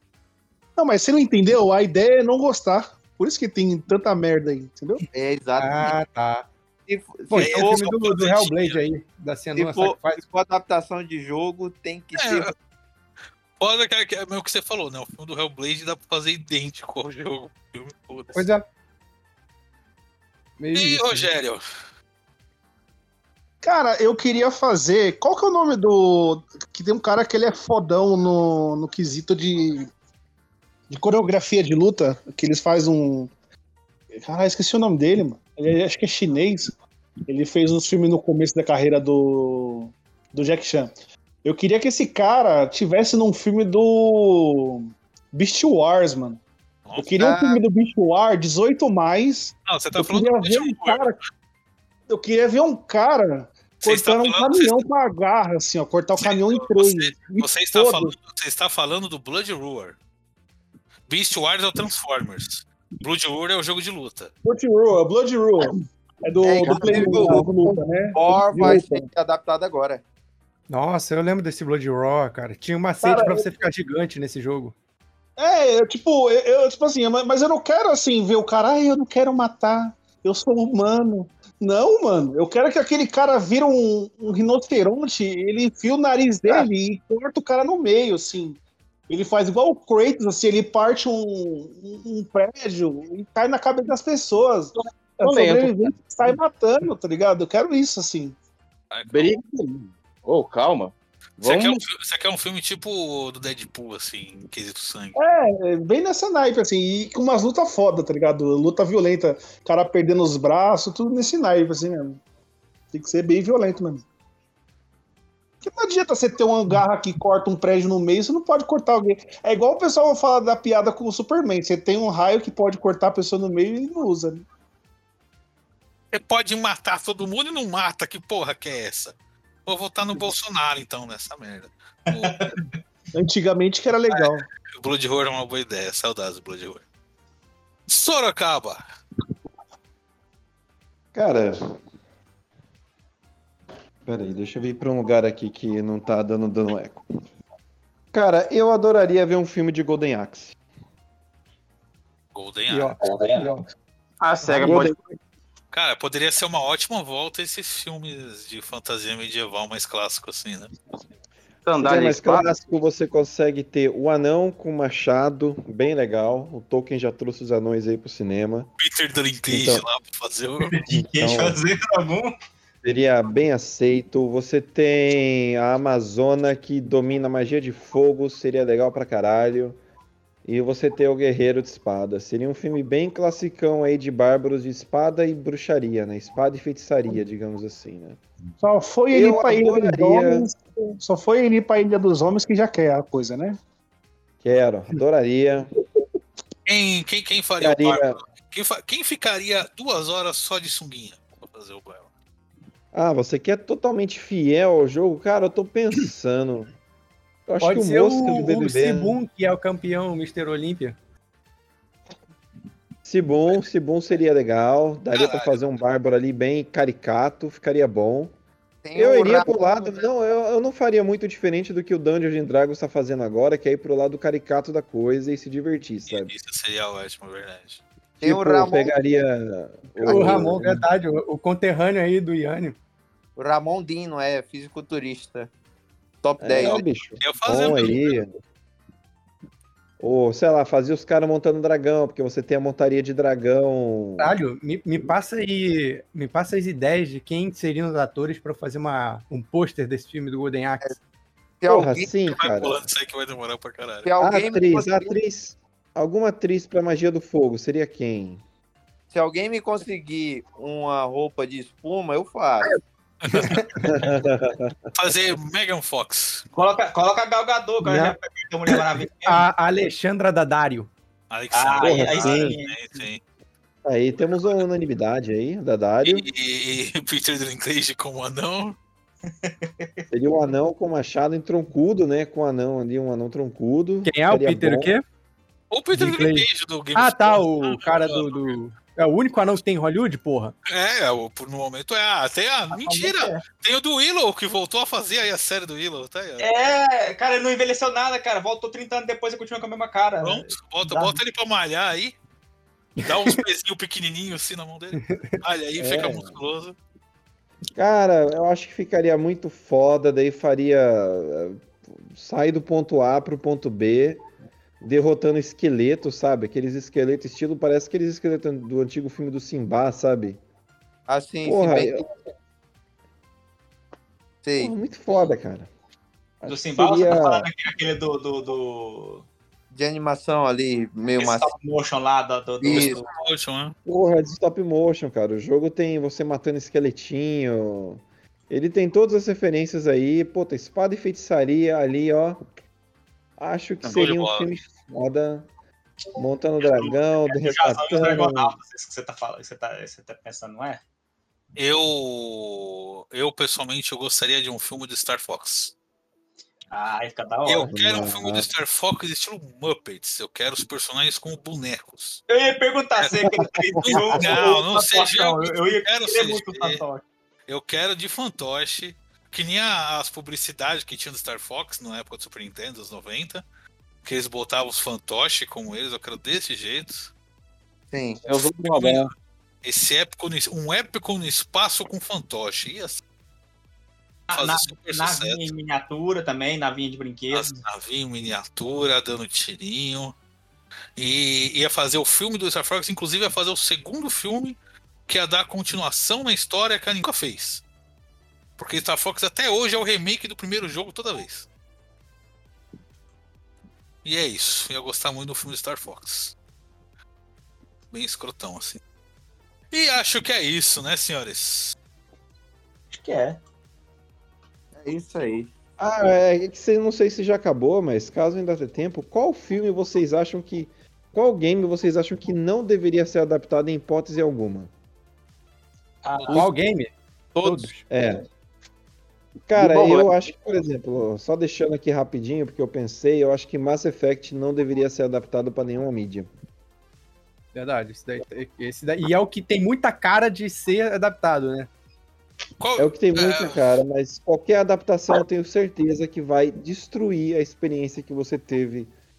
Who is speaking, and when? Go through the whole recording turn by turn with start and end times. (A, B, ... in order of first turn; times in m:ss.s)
0:00.8-0:05.0 A
0:05.1-0:06.0 B
0:05.6-0:06.5 C
0:06.9-0:07.8 B
0:07.3-0:10.2 C
0:07.4-0:08.8 D
0:09.6-0:12.5 B
0:12.2-0:12.5 D
0:13.6-0:18.5 D
0:18.3-0:18.6 C
0:20.6-0:21.3 C
0:20.7-0:21.6 D
0:23.6-0:29.9 A
0:30.9-0:33.3 A
0:34.2-0:36.7 A
0:37.3-0:40.9 A
0:41.4-0:46.4 A
0:46.8-0:47.6 D
0:46.9-0:51.2 A
0:49.7-0:51.0 D
0:52.1-0:58.1 A
0:53.8-0:54.8 D
0:56.2-1:00.0 D
1:01.1-1:04.3 D
1:04.4-1:09.1 A
1:06.4-1:07.6 B
1:08.1-1:10.0 B
1:10.7-1:14.7 C
1:13.0-1:13.5 A
1:15.4-1:38.4 A
1:34.8-1:36.4 E
1:38.9-1:39.3 D
1:39.1-1:41.8 E
1:41.4-1:45.1 D
1:45.1-1:52.2 A
1:52.9-1:54.0 A
1:55.6-2:04.4 A
2:06.1-2:09.1 D
2:09.6-2:12.5 D
2:12.1-2:12.8 F
2:13.1-2:14.4 A
2:14.1-2:16.8 D
2:17.9-2:18.8 D
2:21.1-2:21.6 G
2:24.0-2:27.0 G
2:28.1-2:30.6 G
2:32.3-2:33.0 D
2:32.7-2:33.6 G
2:34.2-2:35.0 E
2:34.5-2:35.1 G
2:35.7-2:40.7 D
2:41.6-2:42.5 E
2:41.8-2:48.7 G
2:48.8-2:50.7 D
2:49.5-2:49.8 G
2:50.6-2:52.3 F
2:51.2-2:51.6 G
2:52.8-2:59.8 G
3:00.4-3:08.2 G
3:08.6-3:13.6 A
3:09.1-3:10.5 G
3:14.4-3:15.7 G
3:16.6-3:22.1 D
3:17.6-3:18.2 G
3:22.9-3:26.7 G
3:27.5-3:29.2 G
3:27.6-3:31.0 C
3:33.0-3:38.3 G
3:35.1-3:35.6 D
3:38.8-3:39.9 B
3:38.9-3:46.3 G
3:46.1-3:47.8 D
3:48.2-3:50.8 G
3:48.2-3:48.9 B
3:50.0-3:50.6 B
3:50.0-3:52.8 C
3:53.4-3:55.5 B
3:56.2-3:56.8 B
3:56.4-3:58.3 G
3:56.7-3:58.0 D
4:00.0-4:04.3 G
4:04.2-4:10.9 C
4:11.6-4:12.4 B
4:11.6-4:12.7 G
4:12.3-4:14.1 D
4:14.0-4:15.1 B
4:14.2-4:18.4 G
4:19.1-4:22.7 B
4:23.2-4:23.9 D
4:23.8-4:24.7 G
4:24.9-4:26.4 D
4:26.5-4:29.5 F
4:27.8-4:28.2 G
4:29.2-4:30.9 C
4:31.3-4:33.2 D
4:31.5-4:33.0 F
4:31.8-4:32.6 G
4:33.8-4:36.3 G
4:36.0-4:38.8 D
4:39.4-4:40.0 F
4:40.1-4:44.9 G
4:44.0-4:45.0 C
4:45.7-4:48.6 D
4:45.9-4:50.5 C
4:50.7-4:56.5 D
4:52.7-4:53.4 F
4:56.4-5:01.2 F
5:00.2-5:02.1 D
5:03.0-5:06.8 D
5:05.1-5:06.2 C
5:07.8-5:14.2 G
5:14.8-5:20.4 G
5:21.1-5:22.0 B
5:21.4-5:22.0 G
5:24.4-5:24.7 B
5:24.6-5:25.7 G
5:26.4-5:27.4 G
5:26.4-5:29.2 F
5:29.7-5:31.5 B
5:31.2-5:33.1 F
5:32.6-5:33.0 B
5:32.7-5:33.7 D
5:33.8-5:42.4 G
5:43.4-5:45.5 G
5:43.8-5:44.5 D
5:46.2-5:48.6 G
5:46.6-5:50.8 F
5:51.6-5:55.7 D
5:56.7-5:57.7 F
5:57.5-6:02.2 D
5:57.6-5:58.5 G
6:02.3-6:07.0 F
6:03.7-6:04.0 G
6:03.8-6:06.8 D
6:07.5-6:13.4 D
6:14.0-6:17.1 D
6:17.9-6:18.2 B
6:18.2-6:19.1 E
6:18.3-6:19.1 D
6:19.6-6:23.0 D
6:24.3-6:27.6 F
6:24.3-6:25.4 D
6:27.3-6:30.1 D
6:31.0-6:37.6 D
6:38.6-6:41.5 D
6:44.0-6:46.3 D
6:47.9-6:48.8 D
6:49.7-6:51.8 D
6:52.9-6:53.4 F
6:54.8-6:55.5 B
6:55.8-7:04.7 G
7:06.0-7:06.5 F
7:06.2-7:06.4 D
7:06.3-7:07.8 C
7:07.9-7:08.2 G
7:09.5-7:16.3 G
7:17.5-7:21.7 C
7:22.6-7:23.6 D
7:22.8-7:28.9 G